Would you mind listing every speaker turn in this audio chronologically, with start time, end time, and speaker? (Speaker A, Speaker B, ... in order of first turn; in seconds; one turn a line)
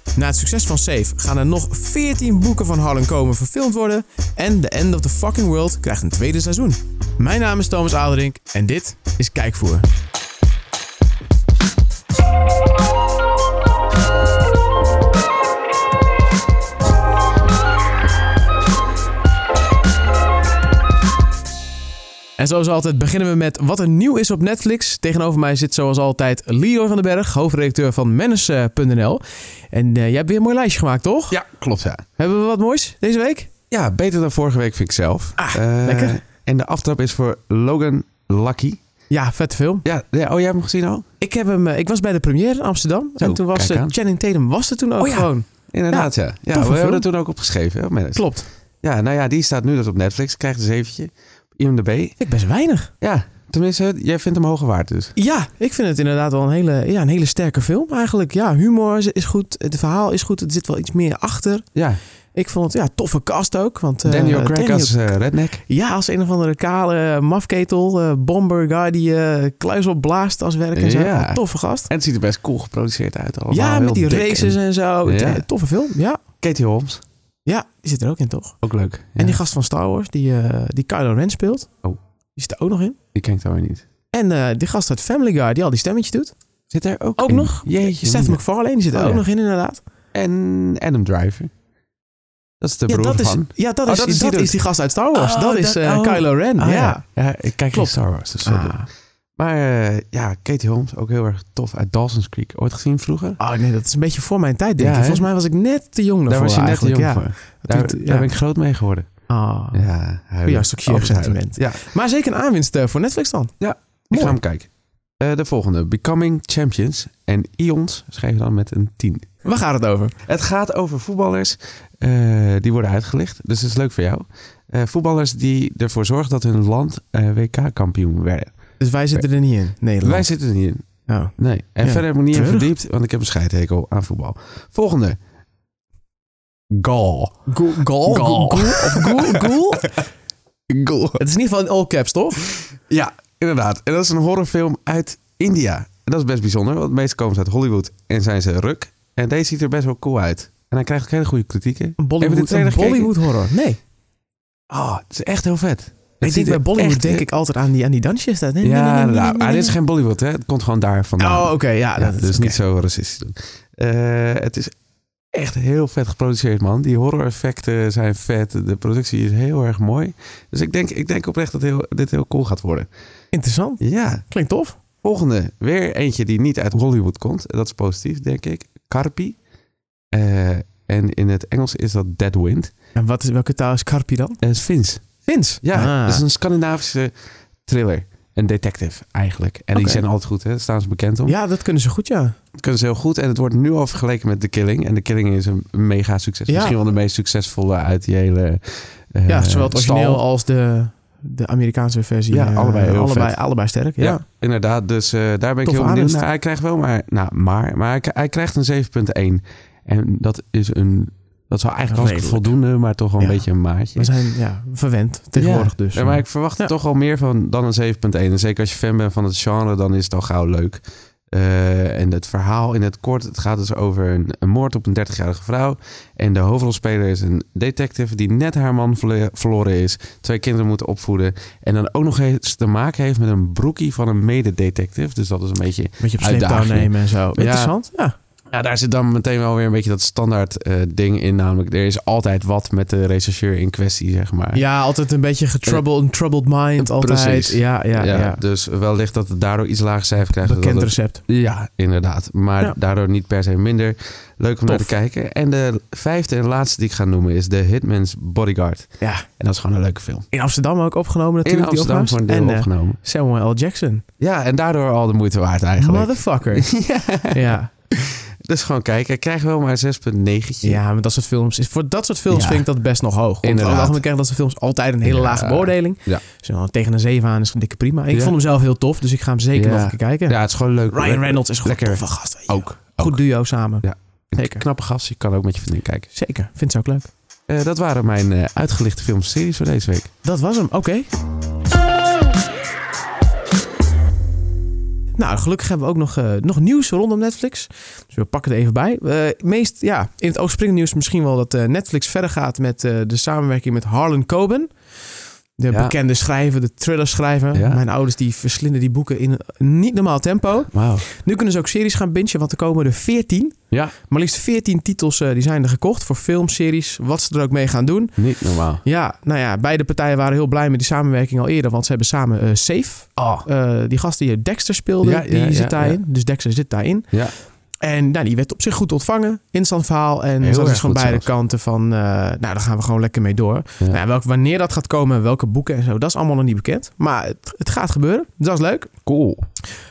Speaker A: 0.1-9.9
Speaker A: 22.4-31.4
Speaker B: 31.3-32.0
Speaker A: 32.2-33.5
Speaker B: 33.7-38.8
Speaker A: 35.4-36.2
Speaker A: 39.1-39.8
Speaker B: 39.8-41.0
Speaker A: 41.2-47.0
Speaker B: 43.2-43.9
Speaker B: 45.0-48.3
Speaker A: 48.1-48.5
Speaker B: 48.8-52.2
Speaker A: 52.2-52.9
Speaker B: 53.0-55.1
Speaker A: 55.1-61.6
Speaker B: 61.7-62.0
Speaker A: 62.4-65.1
Speaker B: 64.0-65.6
Speaker A: 65.7-71.9
Speaker B: 70.8-75.4
Speaker A: 73.5-76.2
Speaker B: 76.4-77.0
Speaker A: 77.5-78.6
Speaker B: 78.6-79.4
Speaker A: 79.2-81.7
Speaker A: 82.3-83.0
Speaker B: 83.1-83.8
Speaker A: 84.1-86.3
Speaker B: 86.7-88.4
Speaker A: 87.2-89.8
Speaker B: 88.9-89.2
Speaker B: 90.1-91.5
Speaker B: 92.6-94.6
Speaker A: 92.9-97.0
Speaker B: 95.1-98.8
Speaker A: 97.7-98.9
Speaker B: 99.4-103.4
Speaker A: 103.4-108.3
Speaker B: 104.8-105.3
Speaker B: 106.3-109.1
Speaker A: 109.3-109.8
Speaker B: 109.7-111.8
Speaker A: 110.4-113.5
Speaker B: 113.6-114.7
Speaker A: 114.1-114.3
Speaker B: 115.2-119.4
Speaker A: 119.4-120.2
Speaker B: 120.2-128.5
Speaker A: 128.8-130.3
Speaker B: 130.0-130.8
Speaker A: 131.1-132.7
Speaker B: 131.4-135.2
Speaker B: 136.7-137.4
Speaker A: 137.5-140.0
Speaker B: 138.1-139.5
Speaker B: 140.7-141.2
Speaker A: 141.2-142.5
Speaker B: 142.9-153.2
Speaker A: 152.0-153.8
Speaker B: 154.7-157.2
Speaker A: 156.2-159.8
Speaker B: 158.6-164.7
Speaker A: 161.2-162.6
Speaker B: 165.3-172.9
Speaker A: 173.3-174.8
Speaker B: 173.8-174.2
Speaker B: 175.0-179.4
Speaker B: 180.1-182.7
Speaker A: 182.9-184.4
Speaker B: 184.4-185.1
Speaker A: 185.2-186.2
Speaker B: 185.6-187.1
Speaker B: 187.7-191.4
Speaker A: 189.8-190.0
Speaker A: 191.3-192.3
Speaker B: 192.6-200.2
Speaker A: 196.5-196.8
Speaker A: 199.3-204.2
Speaker B: 202.3-203.4
Speaker B: 204.0-214.1
Speaker A: 205.7-206.2
Speaker A: 211.9-212.6
Speaker A: 213.2-213.4
Speaker A: 213.9-216.7
Speaker B: 215.3-237.7
Speaker A: 236.0-238.2
Speaker B: 238.5-244.6
Speaker A: 244.5-248.4
Speaker B: 246.8-260.2
Speaker A: 250.4-251.2
Speaker A: 254.7-254.9
Speaker A: 259.0-259.2
Speaker A: 260.3-264.0
Speaker B: 261.4-263.0
Speaker B: 264.2-270.8
Speaker A: 265.8-266.7
Speaker A: 267.3-267.7
Speaker A: 270.6-280.4
Speaker B: 272.3-272.7
Speaker B: 273.4-274.0
Speaker B: 275.0-276.2
Speaker B: 279.6-283.2
Speaker A: 280.9-283.9
Speaker B: 283.8-286.1
Speaker A: 284.4-284.6
Speaker A: 286.1-287.1
Speaker B: 287.5-290.1
Speaker A: 290.2-291.1
Speaker A: 295.2-304.7
Speaker A: 305.6-313.6
Speaker B: 305.7-305.9
Speaker B: 307.5-307.8
Speaker B: 310.7-311.1
Speaker A: 314.1-318.2
Speaker B: 318.2-318.8
Speaker A: 318.8-327.1
Speaker B: 323.2-323.4
Speaker B: 325.0-326.0
Speaker A: 327.8-338.9
Speaker B: 330.4-331.2
Speaker B: 339.1-339.4